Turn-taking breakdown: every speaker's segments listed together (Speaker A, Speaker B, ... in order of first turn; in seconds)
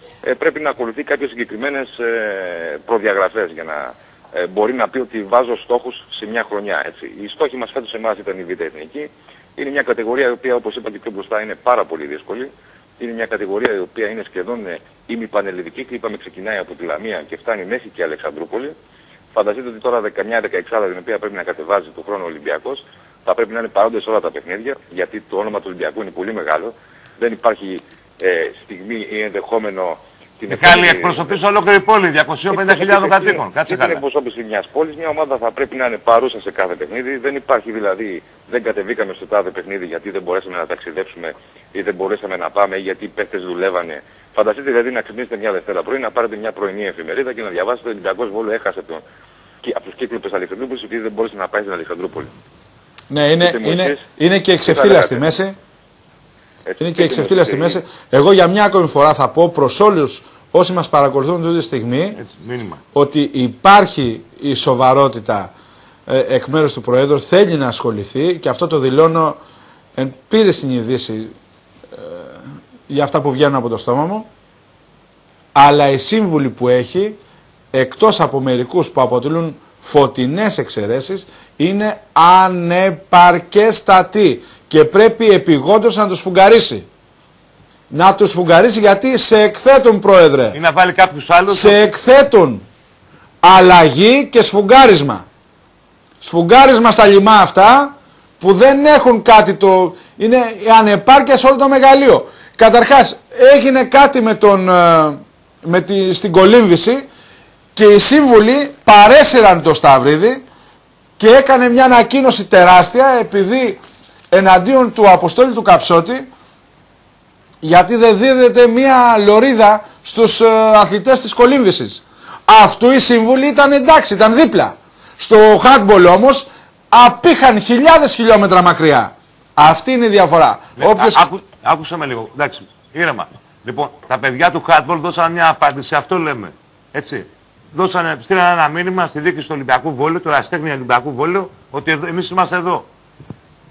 Speaker A: 0.2-18.8, 19.3-31.4, 32.5-49.0, 49.6-52.3, 53.4-54.0, 54.6-55.2, 56.7-57.8
Speaker B: 30.5-34.0, 62.2-62.8, 90.5-91.9, 130.8-142.9
Speaker C: 53.1-55.6, 56.8-62.2, 62.9-65.5, 66.1-69.4, 69.9-71.3, 71.9-74.3, 75.5-77.2, 77.7-86.9, 87.9-90.6, 91.5-92.6, 93.4-95.2, 96.2-107.1, 107.8-110.4, 111.2-116.3, 117.6-131.2